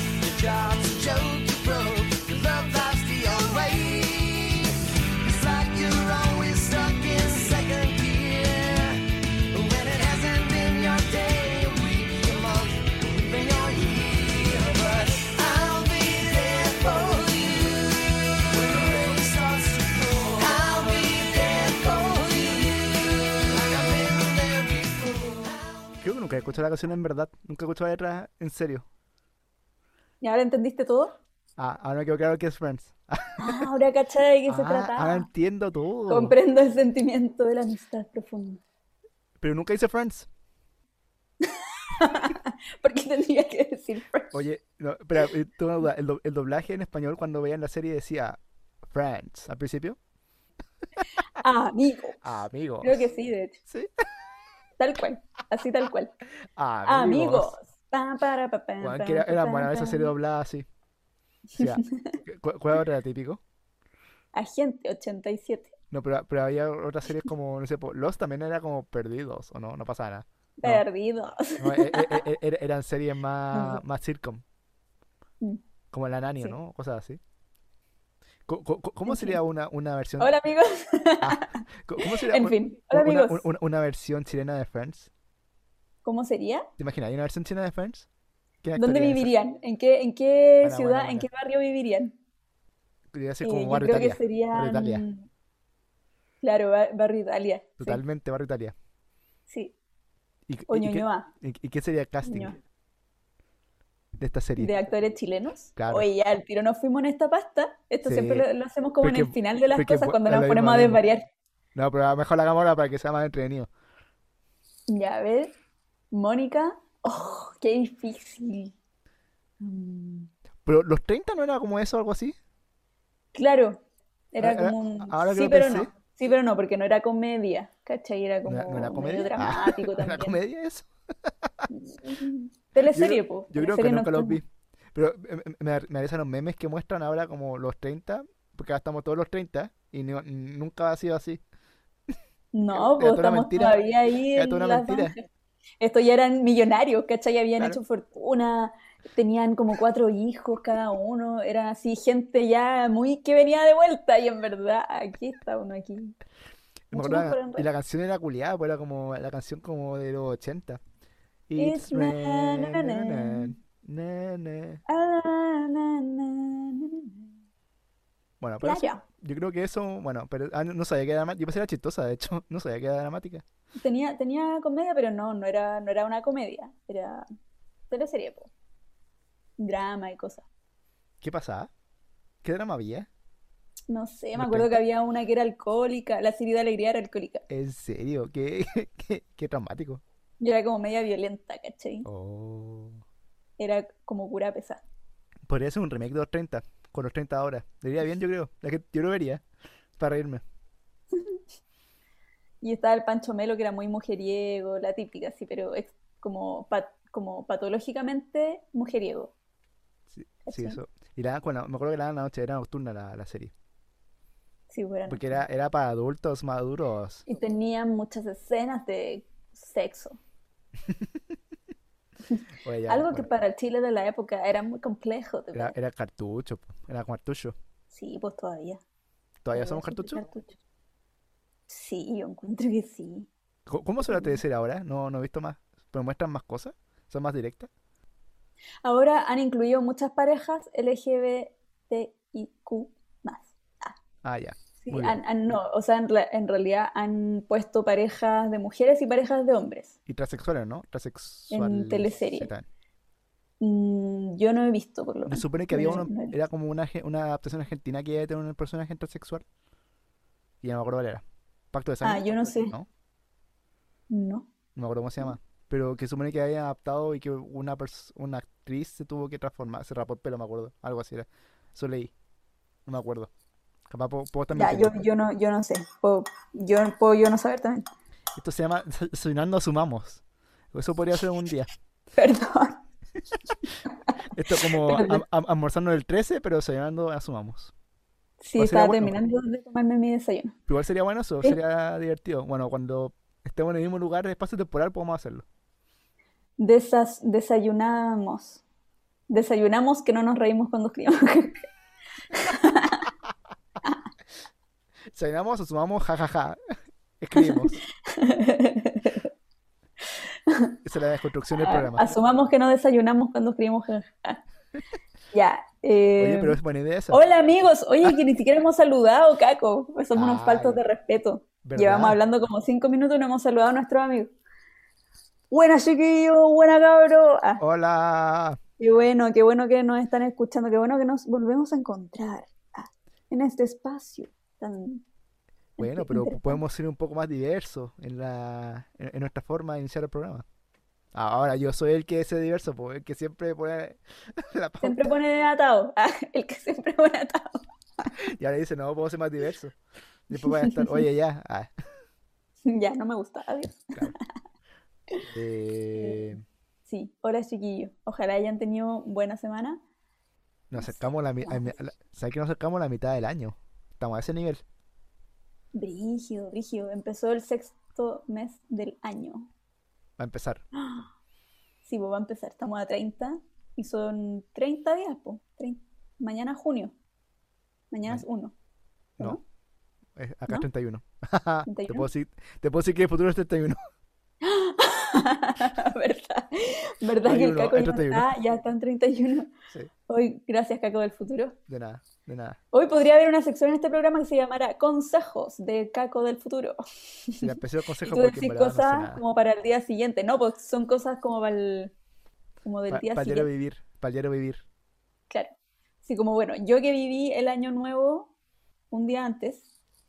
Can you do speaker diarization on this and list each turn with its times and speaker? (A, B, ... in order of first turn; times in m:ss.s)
0:00.2-0:26.0 A
0:26.0-0:28.8 B
0:30.2-0:31.1 C
0:31.6-0:33.7 B
0:33.4-0:35.3 C
0:34.5-0:36.4 B
0:36.1-0:38.6 C
0:39.4-0:40.3 B
0:41.4-0:44.3 C
0:44.3-0:50.0 B
0:51.4-0:52.2 C
0:52.2-0:53.1 B
0:52.8-0:53.6 C
0:54.8-0:56.2 C
0:56.6-0:57.5 B
0:56.8-1:00.1 C
0:58.8-1:00.7 B
1:01.6-1:02.2 C
1:01.6-1:03.4 B
1:04.4-1:05.7 C
1:05.9-1:10.8 B
1:10.6-1:12.2 C
1:11.6-1:14.4 B
1:13.5-1:13.8 C
1:15.9-1:17.2 B
1:18.5-1:20.3 B
1:19.1-1:19.4 C
1:20.2-1:23.4 C
1:21.2-1:25.1 B
1:26.0-1:26.7 C
1:26.8-1:28.1 B
1:28.6-1:29.3 B
1:28.8-1:32.2 C
1:30.6-1:31.3 B
1:33.1-1:35.0 B
1:33.4-1:35.3 C
1:36.4-1:38.0 C
1:37.8-1:38.8 B
1:39.5-1:39.7 C
1:40.5-1:42.6 B
1:40.7-1:41.3 C
1:42.2-1:42.6 C
1:44.2-1:44.8 B
1:44.6-1:51.2 C
1:45.8-1:46.1 B
1:48.0-1:48.5 B
1:49.0-1:51.0 B
1:51.8-1:53.7 B
1:54.9-1:55.5 C
1:56.1-1:58.8 C
1:59.6-2:00.3 C
2:00.7-2:02.4 B
2:03.3-2:03.8 C
2:04.3-2:10.4 C
2:04.4-2:05.9 B
2:08.5-2:11.6 B
2:11.7-2:14.4 C
2:12.9-2:21.4 B
2:22.5-2:25.2 C
2:22.7-2:25.2 B
2:25.8-2:36.2 C
2:36.9-2:40.8 B
2:36.9-2:37.7 C
2:41.5-2:44.8 B
2:41.6-2:43.6 C
2:44.9-2:47.3 C
2:48.4-2:53.4 B
2:48.6-2:49.0 C
2:53.8-2:57.2 C
2:57.9-2:58.5 C
2:59.6-3:00.4 C
3:01.2-3:01.7 B
3:02.4-3:03.1 B
3:03.9-3:07.5 C
3:04.3-3:04.8 B
3:07.5-3:10.0 B
3:10.4-3:12.1 C
3:12.0-3:13.0 B
3:13.6-3:14.8 C
3:15.5-3:19.4 B
3:20.0-3:20.4 B
3:22.6-3:29.3 C
3:30.1-3:33.5 B
3:30.4-3:30.8 C
3:34.7-3:35.4 C
3:35.1-3:37.2 B
3:37.3-3:40.2 C
3:42.3-3:45.8 C
3:42.6-3:43.3 B
3:45.5-3:47.6 B
3:47.9-3:48.8 C
3:49.4-3:50.2 B
3:49.5-3:50.6 C
3:51.7-3:53.3 C
3:53.7-3:57.7 B
3:54.0-3:54.4 C
3:58.8-4:04.0 C
4:04.2-4:05.2 B
4:04.8-4:10.0 C
4:10.1-4:12.7 B
4:11.5-4:12.5 C
4:13.6-4:16.4 C
4:15.3-4:19.4 B
4:20.6-4:22.9 B
4:22.0-4:22.7 C
4:24.1-4:24.5 C
4:24.8-4:32.1 B
4:32.9-4:33.3 B
4:33.9-4:35.0 B
4:34.5-4:37.9 C
4:38.4-4:40.2 B
4:40.7-4:41.7 B
4:42.2-4:42.8 C
4:44.3-4:47.7 B
4:44.5-4:45.2 C
4:48.4-4:50.6 C
4:48.6-4:49.2 B
4:50.7-4:55.4 B
4:56.6-4:58.6 C
4:59.3-5:01.7 C
5:02.3-5:03.1 C
5:05.1-5:06.6 B
5:07.2-5:07.8 B
5:07.4-5:09.3 C
5:10.5-5:10.8 C
5:10.8-5:12.2 B
5:11.5-5:14.4 C
5:15.3-5:16.6 C
5:16.2-5:17.2 B
5:17.1-5:24.3 C
5:20.2-5:20.8 B
5:21.6-5:22.2 B
5:25.5-5:27.6 C
5:27.6-5:28.6 B
5:28.8-5:35.0 C
5:35.8-5:36.6 C
5:35.8-5:40.4 B
5:41.1-5:45.2 B
5:44.8-5:48.1 C
5:48.2-5:49.8 B
5:50.3-5:51.7 B
5:50.3-5:51.0 C
5:52.7-5:54.2 C
5:55.3-5:56.4 B
5:56.0-5:59.8 C
6:00.7-6:04.6 B
6:00.8-6:01.8 C
6:05.7-6:09.5 C
6:10.2-6:10.6 B
6:10.7-6:11.1 C
6:11.8-6:16.9 C
6:17.9-6:18.5 C
6:20.2-6:23.8 B
6:21.7-6:22.1 C
6:24.4-6:29.5 C
6:27.2-6:28.3 B
6:30.1-6:31.6 C
6:31.7-6:32.6 B
6:32.7-6:41.9 C
6:37.4-6:39.2 B
6:42.6-6:43.5 C
6:42.9-6:44.6 B
6:45.3-6:48.3 C
6:48.9-6:49.6 C